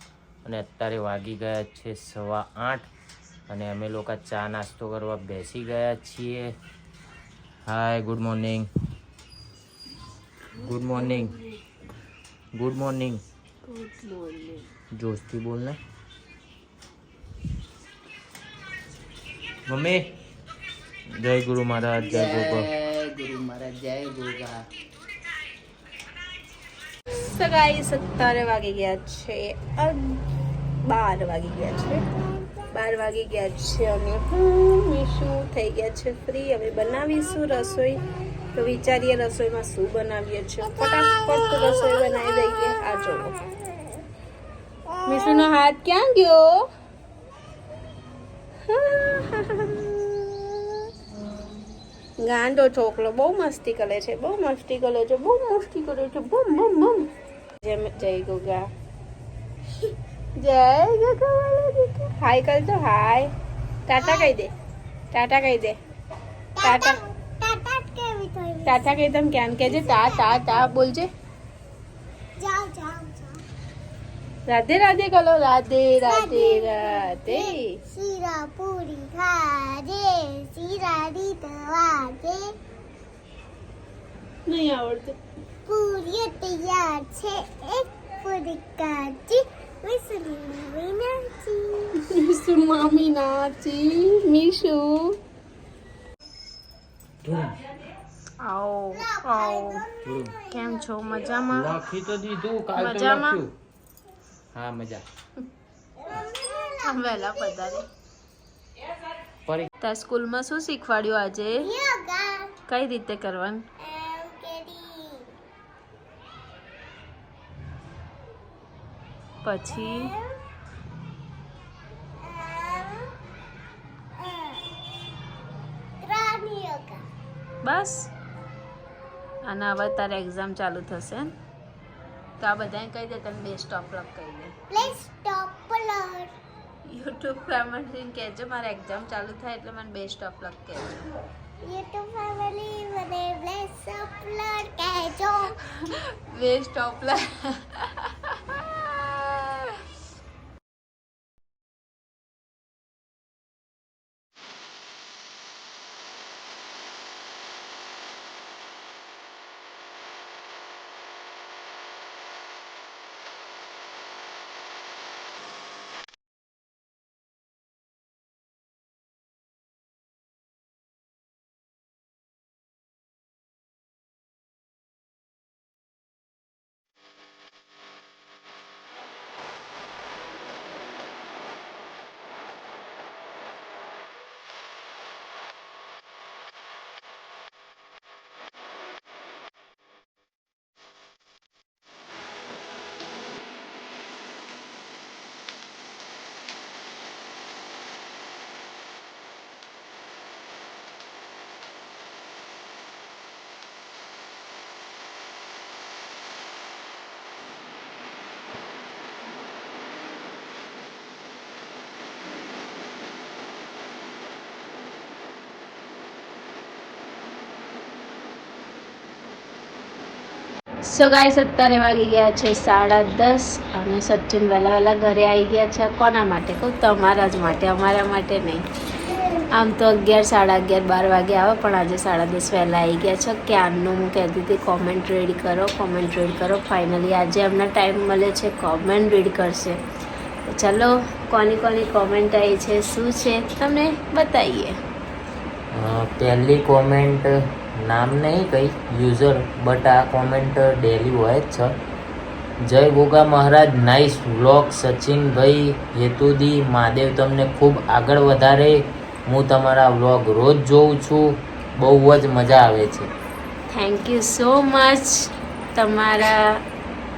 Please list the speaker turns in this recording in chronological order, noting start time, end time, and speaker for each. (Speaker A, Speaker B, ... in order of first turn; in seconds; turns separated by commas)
Speaker A: 0.4-2.9, Speaker A: 3.5-6.6, Speaker A: 7.7-8.7, Speaker A: 10.5-11.4, Speaker B: 11.0-11.2, Speaker A: 12.6-13.2, Speaker B: 13.7-14.7, Speaker A: 14.9-15.8, Speaker A: 19.7-20.1, Speaker A: 21.1-22.7, Speaker C: 22.0-24.6, Speaker B: 27.1-30.2, Speaker B: 30.9-32.0, Speaker B: 32.7-43.4, Speaker B: 45.0-46.5, Speaker B: 48.7-50.8, Speaker B: 52.2-57.1, Speaker B: 57.6-58.7, Speaker B: 60.4-63.3, Speaker B: 63.9-64.5, Speaker B: 65.1-65.8, Speaker D: 66.6-69.0, Speaker B: 66.6-67.0, Speaker B: 68.7-71.1, Speaker D: 69.7-70.7, Speaker D: 72.4-73.4, Speaker B: 74.5-77.8, Speaker D: 76.0-82.6, Speaker B: 84.5-85.2, Speaker D: 85.7-92.0, Speaker B: 92.0-95.2, Speaker A: 97.2-97.6, Speaker B: 98.4-99.9, Speaker D: 99.1-100.7, Speaker A: 100.0-100.4, Speaker B: 100.5-101.8, Speaker A: 101.5-103.5, Speaker B: 102.8-103.4, Speaker A: 104.5-105.0, Speaker D: 106.0-107.2, Speaker B: 106.8-107.9, Speaker B: 109.8-111.8, Speaker D: 111.6-112.6, Speaker B: 112.7-113.7, Speaker D: 113.8-115.3, Speaker B: 119.4-120.1, Speaker D: 119.8-120.4, Speaker D: 122.2-123.1, Speaker D: 124.2-124.8, Speaker D: 126.0-127.0, Speaker B: 127.6-128.1, Speaker B: 129.5-131.3, Speaker B: 132.4-134.8, Speaker D: 134.7-136.3, Speaker B: 136.9-141.1, Speaker D: 141.6-145.6, Speaker B: 145.5-149.7, Speaker B: 220.8-228.7, Speaker B: 229.5-239.8, Speaker B: 240.5-244.8, Speaker A: 245.7-251.8, Speaker A: 252.6-263.1, Speaker B: 263.7-266.6